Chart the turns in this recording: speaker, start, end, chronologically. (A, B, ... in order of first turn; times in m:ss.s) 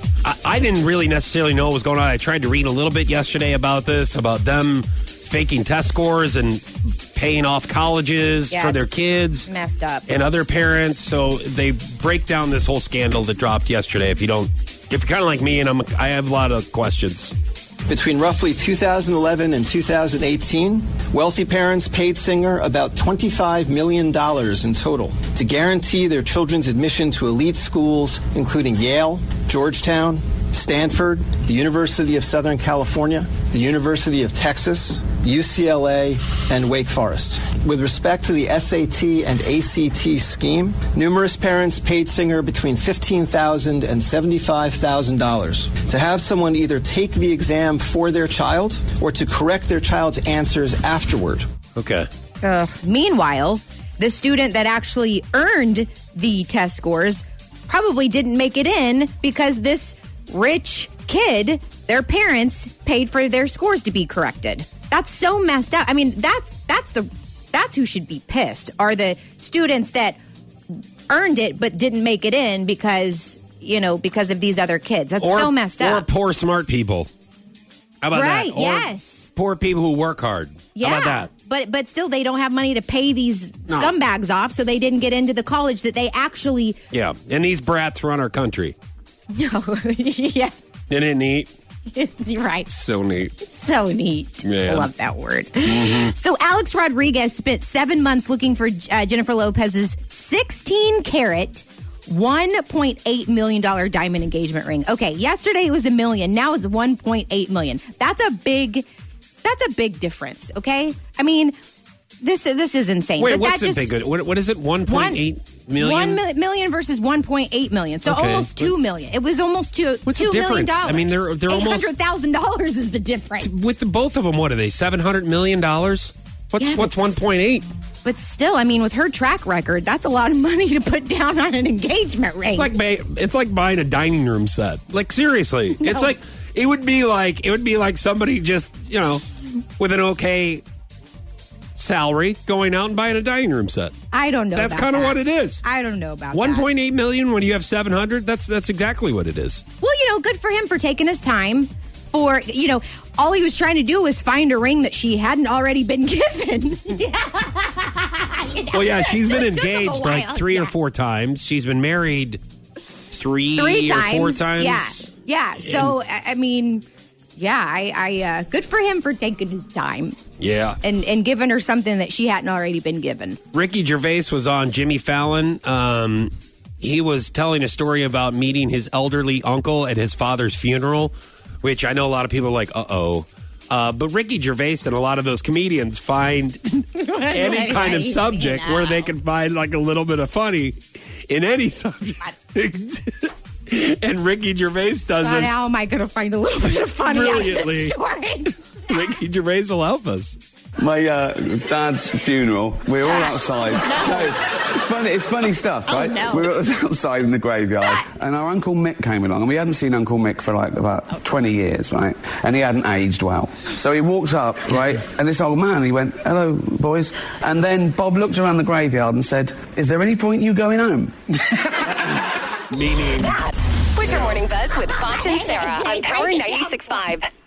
0:00.2-0:09.5 A
0:08.5-0:08.9 B
0:09.4-0:10.1 B
0:10.1-0:17.3 A
0:17.9-0:51.5 C
0:51.8-0:52.1 A
0:52.4-1:10.2 B
1:11.1-1:16.0 B
1:15.2-1:17.1 A
1:18.0-1:21.3 A
1:18.1-1:19.3 B
1:20.8-1:26.8 B
1:26.9-1:28.8 A
1:29.3-1:30.5 B
1:30.9-1:31.5 A
1:31.9-1:32.7 B
1:32.7-1:33.3 A
1:33.4-1:48.9 B
1:34.4-1:34.9 A
1:35.6-1:36.1 A
1:49.4-1:51.6 B
1:52.2-1:53.9 B
1:53.2-1:56.2 A
1:54.9-1:55.2 B
1:55.8-2:03.5 B
1:58.0-1:58.7 A
2:00.1-2:01.9 A
2:03.4-2:07.7 A
2:06.6-2:07.1 B
2:08.0-2:12.7 B
2:12.5-2:20.6 A
2:15.8-2:16.2 B
2:21.8-2:23.9 A
2:24.1-2:26.7 B
2:24.5-2:25.6 A
2:26.3-2:29.6 A
2:29.8-2:40.7 B
2:38.7-2:42.4 A
2:43.1-2:45.1 A
2:43.6-2:46.8 B
2:45.6-2:45.9 A
2:47.4-2:50.2 B
2:50.4-2:50.8 A
2:50.8-2:53.4 B
2:53.5-3:15.6 A
3:07.0-3:09.0 B
3:15.2-3:18.6 B
3:17.0-3:18.0 A
3:18.9-3:20.4 A
3:20.8-3:42.2 D
3:23.0-3:24.4 B
3:25.9-3:26.5 B
3:42.7-3:43.4 A
3:43.3-3:47.3 E
3:44.1-3:44.4 A
3:45.2-3:47.1 B